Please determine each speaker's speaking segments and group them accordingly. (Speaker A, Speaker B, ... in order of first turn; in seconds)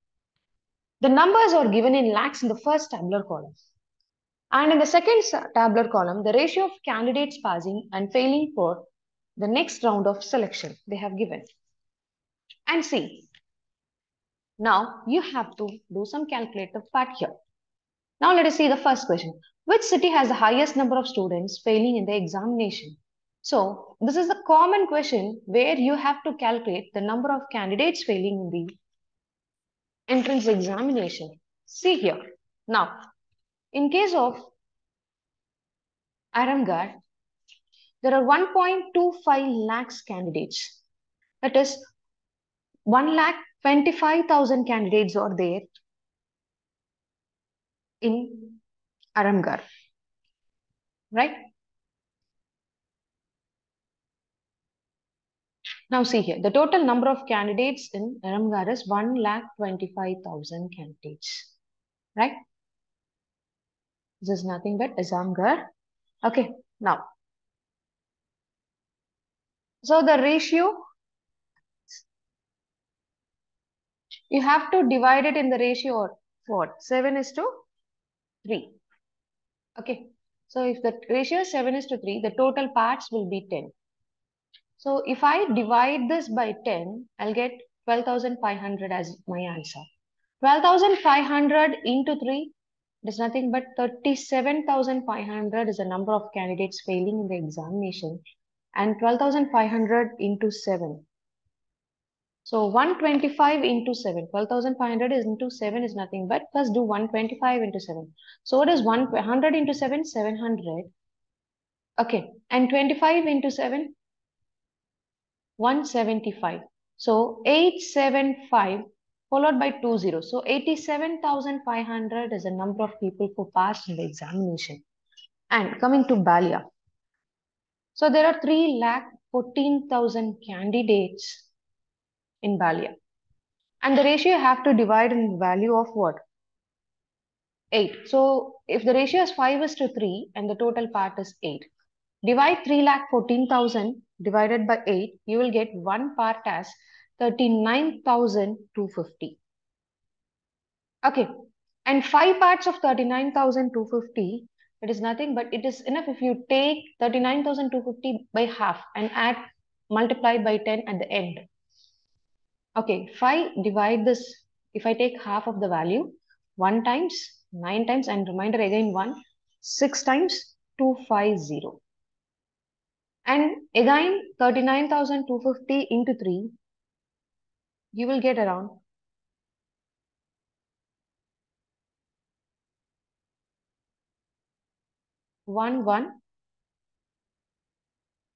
Speaker A: 1.0-3.5, 4.5-8.9, 9.4-11.5, 12.7-13.3, 14.6-17.3, 18.2-28.7, 30.1-33.1, 33.7-34.5, 36.3-37.0, 38.0-40.8, 41.4-41.9, 42.9-45.7, 48.0-48.6, 49.2-49.6, 51.1-51.5, 55.9-61.5, 64.2-65.7, 66.2-67.0, 69.8-70.8, 74.3-77.5, 78.5-78.8, 79.8-83.7, 84.8-89.9, 90.4-92.5, 93.0-98.2, 98.8-101.0, 102.5-110.9, 112.0-113.9, 115.6-124.8, 125.5-126.6, 128.0-131.4, 132.4-132.9, 133.8-136.2, 137.7-141.7, 142.2-149.4, 151.1-151.3, 151.9-161.4, 162.8-171.8, 173.3-176.6, 177.9-178.8, 185.5-186.2